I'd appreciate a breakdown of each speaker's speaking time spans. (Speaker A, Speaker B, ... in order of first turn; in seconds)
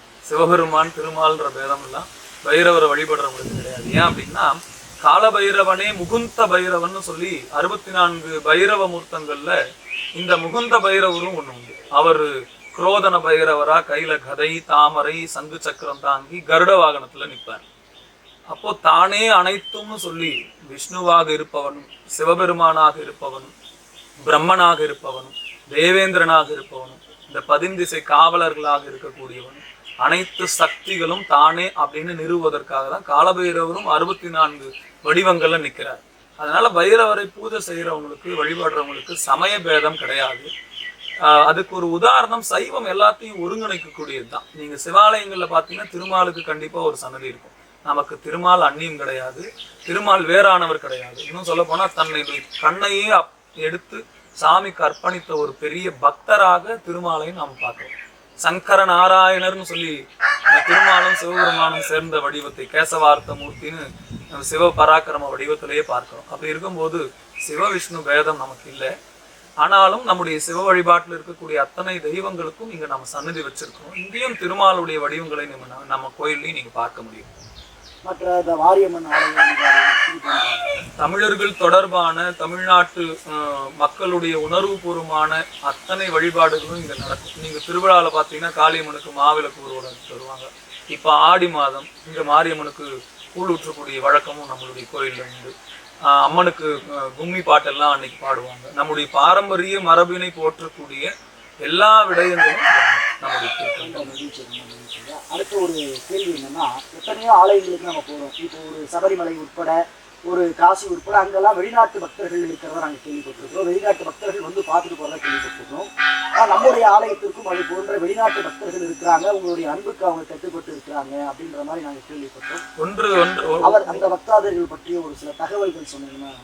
Speaker A: 0.2-4.5, 5.0-9.6, 10.2-17.6, 18.5-23.5, 24.2-40.5, 41.3-60.0, 60.5-68.9, 69.6-77.3, 81.0-95.5, 96.1-101.1, 101.7-104.1, 122.8-124.1
Speaker B: 78.0-80.8, 103.8-122.6, 123.6-126.3